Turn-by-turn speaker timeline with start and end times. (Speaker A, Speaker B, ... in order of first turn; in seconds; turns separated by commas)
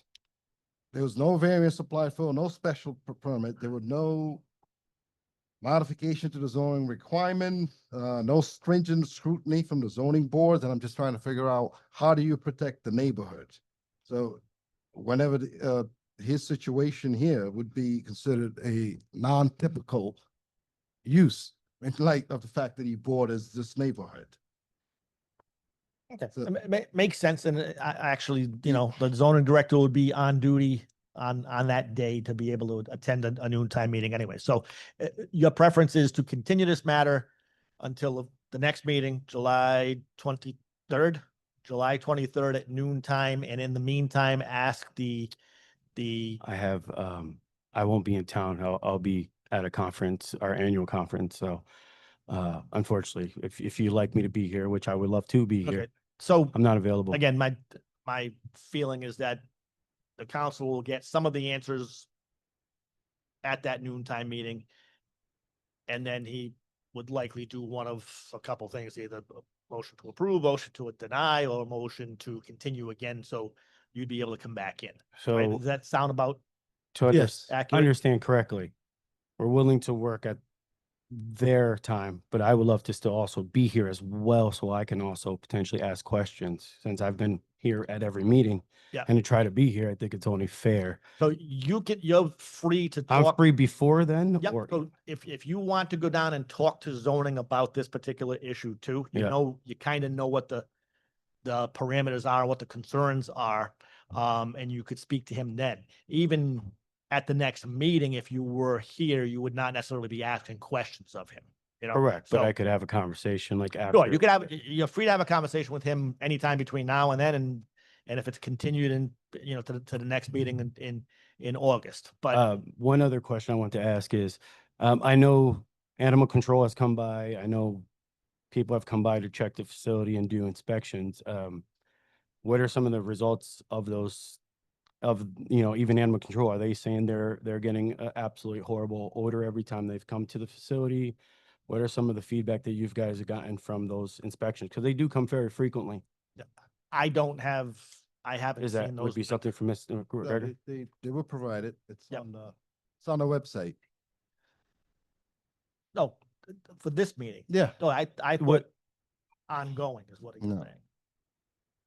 Speaker A: 0.9-4.5, Speaker A: 5.6-14.4, Speaker A: 14.9-20.2, Speaker A: 21.1-24.4, Speaker B: 26.1-45.3, Speaker B: 46.0-46.4, Speaker C: 46.4-51.6, Speaker C: 52.3-55.9, Speaker B: 55.6-56.5, Speaker C: 56.5-57.2, Speaker B: 57.1-59.4, Speaker B: 60.2-62.1, Speaker B: 63.4-64.7, Speaker B: 65.9-76.4, Speaker C: 75.2-75.6, Speaker C: 76.9-78.7, Speaker A: 77.1-77.5, Speaker B: 77.5-77.9, Speaker C: 79.4-80.4, Speaker C: 81.1-91.0, Speaker B: 91.2-93.4, Speaker C: 93.1-94.8, Speaker B: 94.4-100.7, Speaker B: 101.4-112.5, Speaker C: 111.9-114.2, Speaker B: 113.9-122.4, Speaker C: 122.3-127.8, Speaker C: 128.5-131.6, Speaker C: 132.4-134.4, Speaker C: 135.0-141.2, Speaker C: 141.7-146.0, Speaker B: 146.4-149.4, Speaker C: 148.6-150.5, Speaker A: 150.2-153.8, Speaker B: 155.9-158.7, Speaker A: 157.5-157.8, Speaker B: 159.5-160.8, Speaker A: 160.4-160.7